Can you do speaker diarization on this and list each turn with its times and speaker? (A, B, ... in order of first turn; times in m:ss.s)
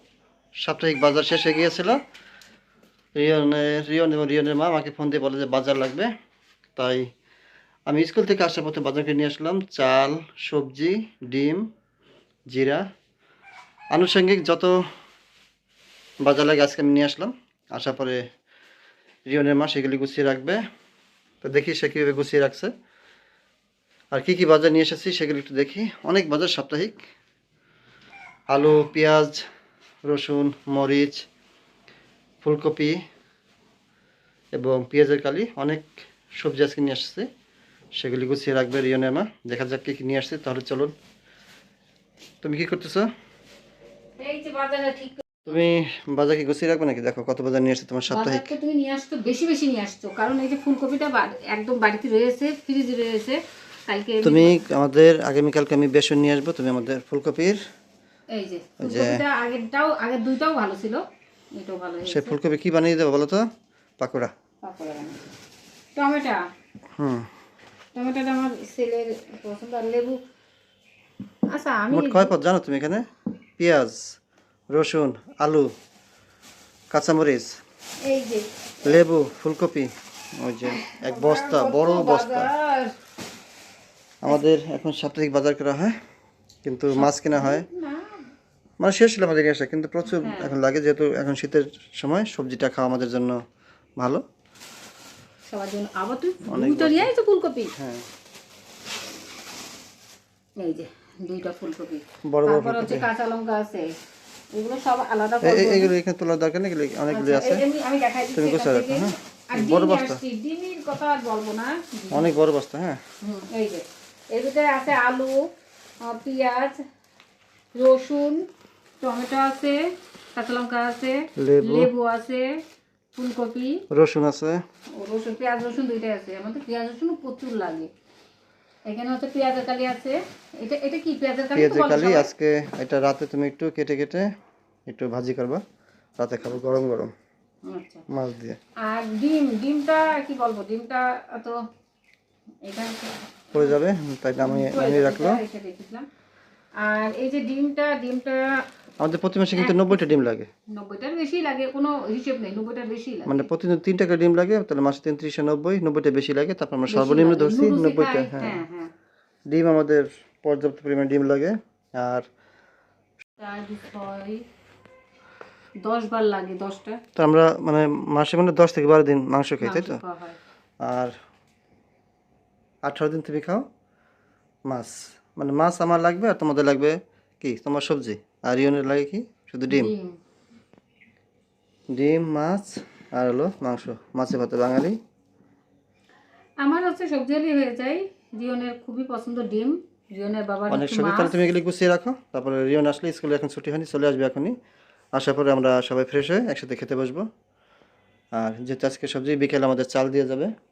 0:00.6-0:02.0 A
0:03.2-0:06.1 A
0:06.8-0:07.0 A
0:07.9-0:11.7 A
0:12.5-0:12.8 A
0:13.9-0:14.8 A
0:16.2-0:18.2 A
0:19.3-0:20.6 A
0:21.4-0:22.7 A
0:24.1-0:27.0 A
0:28.5-0:29.4 A
0:30.0-0:31.2 A
0:32.4-0:33.0 A
0:34.6-0:37.3 A
0:38.0-0:40.9 A
0:42.4-0:43.1 A
0:44.2-0:45.2 B
0:45.4-0:48.5 A
0:48.1-0:54.6 B
0:54.2-0:57.6 A
0:58.3-1:01.0 B
0:58.8-0:59.2 A
1:01.5-1:02.4 B
1:02.1-1:03.5 A
1:04.0-1:04.3 A
1:04.6-1:05.2 B
1:06.0-1:06.4 B
1:07.0-1:07.3 A
1:07.9-1:10.2 B
1:11.5-1:12.3 B
1:11.9-1:13.0 A
1:13.6-1:14.0 A
1:14.7-1:15.7 A
1:16.9-1:17.5 A
1:18.0-1:19.0 B
1:18.8-1:22.5 A
1:20.7-1:22.9 B
1:24.2-1:26.0 A
1:26.6-1:27.6 A
1:26.9-1:28.2 B
1:28.8-1:33.4 A
1:30.1-1:30.5 B
1:34.0-1:34.2 A
1:35.5-1:37.7 B
1:36.5-1:37.1 A
1:37.8-1:38.0 A
1:40.6-1:43.9 B
1:42.2-1:43.1 A
1:44.5-1:45.9 B
1:45.4-1:47.6 A
1:47.1-1:52.3 B
1:48.3-1:50.2 A
1:52.1-1:53.0 A
1:53.2-1:55.5 B
1:56.0-1:56.8 B
1:57.7-1:58.4 B
1:59.0-1:59.8 B
2:00.3-2:02.6 B
2:01.4-2:01.9 A
2:03.1-2:03.8 B
2:03.9-2:04.6 A
2:04.9-2:07.9 B
2:08.9-2:12.3 B
2:11.5-2:14.3 A
2:14.9-2:15.6 A
2:16.2-2:17.1 A
2:17.6-2:18.0 B
2:18.1-2:18.6 A
2:18.8-2:21.6 B
2:22.6-2:23.8 B
2:23.5-2:25.4 A
2:24.4-2:26.1 B
2:26.8-2:28.6 B
2:29.0-2:30.5 A
2:29.5-2:30.0 B
2:30.7-2:33.5 B
2:33.2-2:38.6 A
2:36.9-2:38.9 B
2:39.5-2:42.3 A
2:43.4-2:44.4 B
2:45.8-2:47.0 B
2:47.1-2:50.0 A
2:49.6-2:50.4 B
2:50.8-2:51.1 A
2:52.8-2:53.6 A
2:54.6-2:59.9 A
2:59.7-3:00.2 B
3:01.9-3:05.0 A
3:06.6-3:11.4 B
3:10.7-3:14.5 A
3:15.1-3:17.2 A
3:18.3-3:20.5 A